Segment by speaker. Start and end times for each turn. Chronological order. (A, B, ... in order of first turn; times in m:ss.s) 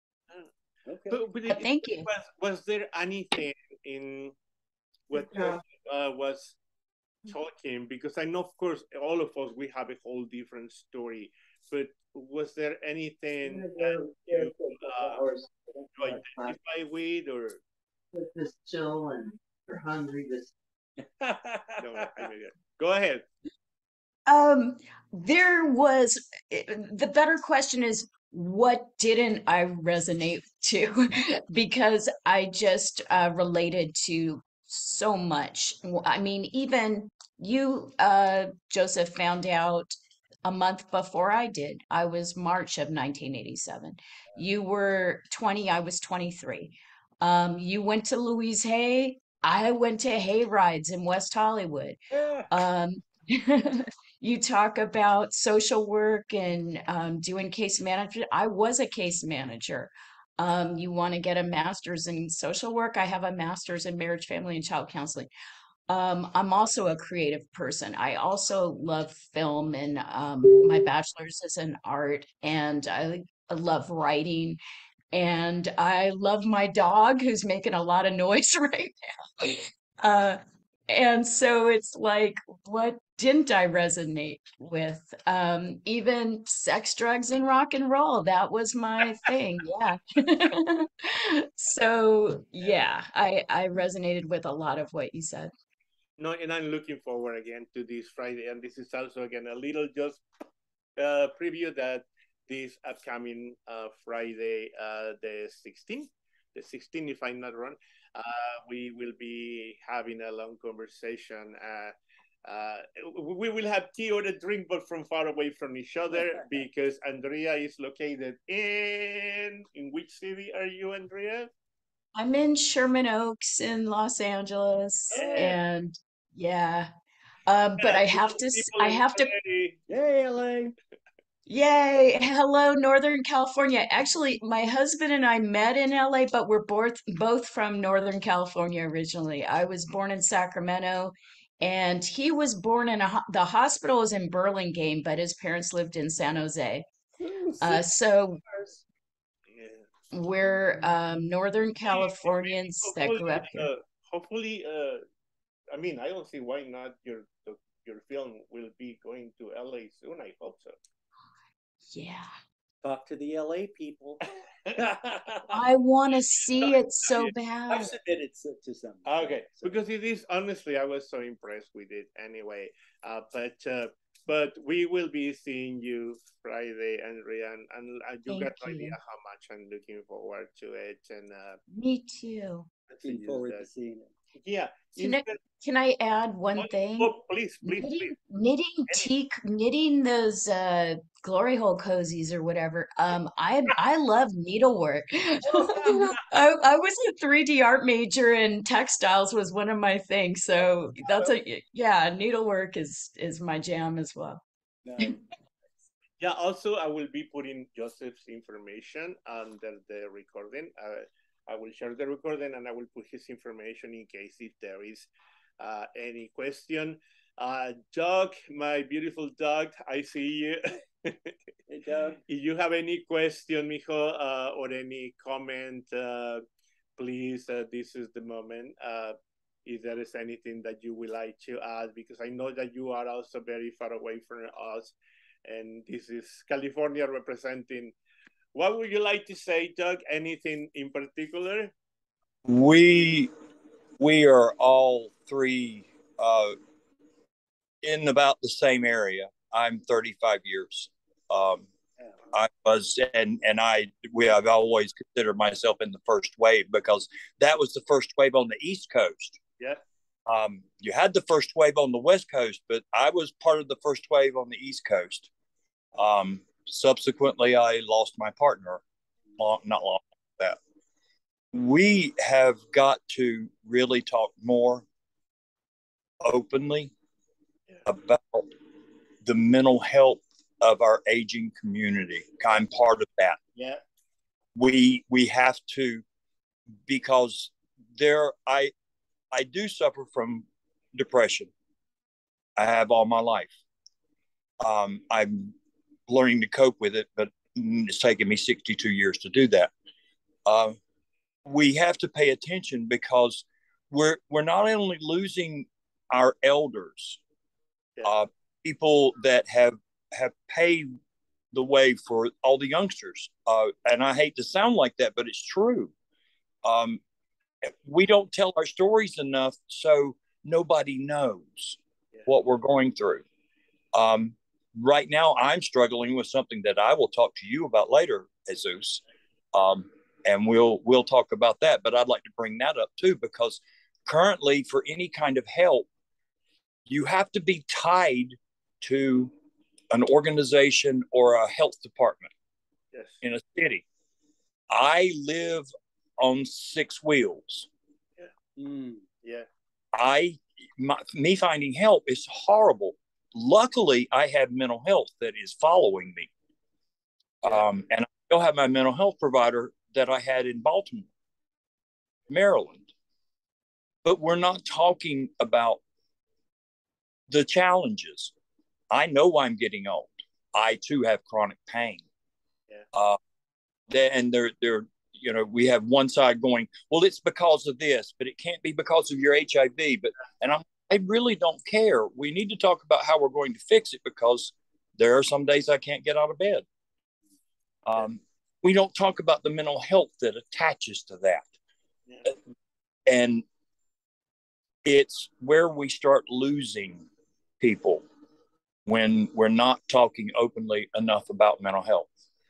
0:00.9-0:01.2 A
0:01.1-0:04.3 B
0:01.5-0:02.1 C
0:05.1-0:06.6 B
0:05.1-0:05.6 D
0:07.3-0:15.2 B
0:13.4-0:15.5 D
0:16.0-0:17.6 B
0:16.1-0:16.6 D
0:18.1-0:20.5 D
0:21.0-0:22.3 A
0:21.8-0:23.2 B
0:24.3-0:52.0 C
0:52.1-0:52.5 A
0:52.5-1:05.3 C
1:05.9-1:14.6 C
1:15.1-1:35.5 C
1:36.2-1:40.2 B
1:41.0-1:51.9 B
1:52.5-2:01.5 B
1:56.1-1:56.6 A
2:02.2-2:06.9 C
2:05.1-2:05.6 B
2:05.1-2:05.5 A
2:07.5-2:09.3 C
2:07.8-2:09.8 B
2:09.9-2:10.8 A
2:11.5-2:26.9 C
2:27.4-2:27.8 B
2:27.6-2:28.4 C
2:29.5-2:29.9 B
2:30.1-2:33.7 C
2:31.8-2:35.0 B
2:35.7-2:40.8 B
2:41.9-2:42.3 C
2:42.8-2:44.2 A
2:44.8-2:45.6 A
2:45.5-2:47.9 C
2:46.5-2:47.3 B
2:47.7-2:49.8 A
2:49.1-3:01.6 B
2:58.3-2:59.0 C
3:01.7-3:02.7 C
3:02.9-3:03.7 B
3:03.0-3:04.1 A
3:04.4-3:05.4 B
3:05.0-3:24.4 C
3:06.6-3:08.1 B
3:15.5-3:16.0 A
3:24.8-3:25.2 A
3:26.2-3:35.1 B
3:35.6-3:41.4 B
3:41.7-3:42.2 A
3:42.3-3:46.4 B
3:47.0-3:58.0 B
3:58.5-4:01.7 B
4:02.5-4:03.3 E
4:04.0-4:06.6 E
4:07.8-4:11.7 E
4:12.3-4:19.4 E
4:20.3-4:25.3 E
4:26.0-4:28.8 E
4:29.4-4:30.6 E
4:31.5-4:34.9 E
4:36.2-4:36.9 E
4:37.9-4:38.5 E
4:39.2-4:43.4 E
4:43.6-4:43.8 B
4:44.6-4:46.0 E
4:46.9-4:48.7 E
4:49.3-4:51.5 E
4:52.6-4:53.6 E
4:54.6-4:55.6 E
4:56.1-4:59.7 E
5:00.5-5:00.8 E
5:01.5-5:07.2 E
5:08.0-5:10.9 E
5:11.5-5:15.9 E
5:16.6-5:17.0 E
5:17.6-5:23.2 E
5:23.9-5:29.0 E
5:29.5-5:35.9 E
5:36.9-5:39.3 E
5:39.9-5:42.3 E
5:42.9-5:43.2 B
5:43.2-5:43.8 E
5:44.7-5:47.7 E
5:48.6-5:49.0 A
5:49.2-5:49.5 B
5:49.9-5:56.3 E
5:57.4-6:01.1 E
6:02.3-6:02.9 E
6:04.0-6:05.8 E
6:07.3-6:08.3 E
6:08.9-6:12.0 E
6:13.9-6:26.6 E
6:27.9-6:31.5 E
6:33.1-6:33.4 E
6:34.8-6:37.1 E
6:37.6-6:38.0 E
6:38.9-6:42.1 E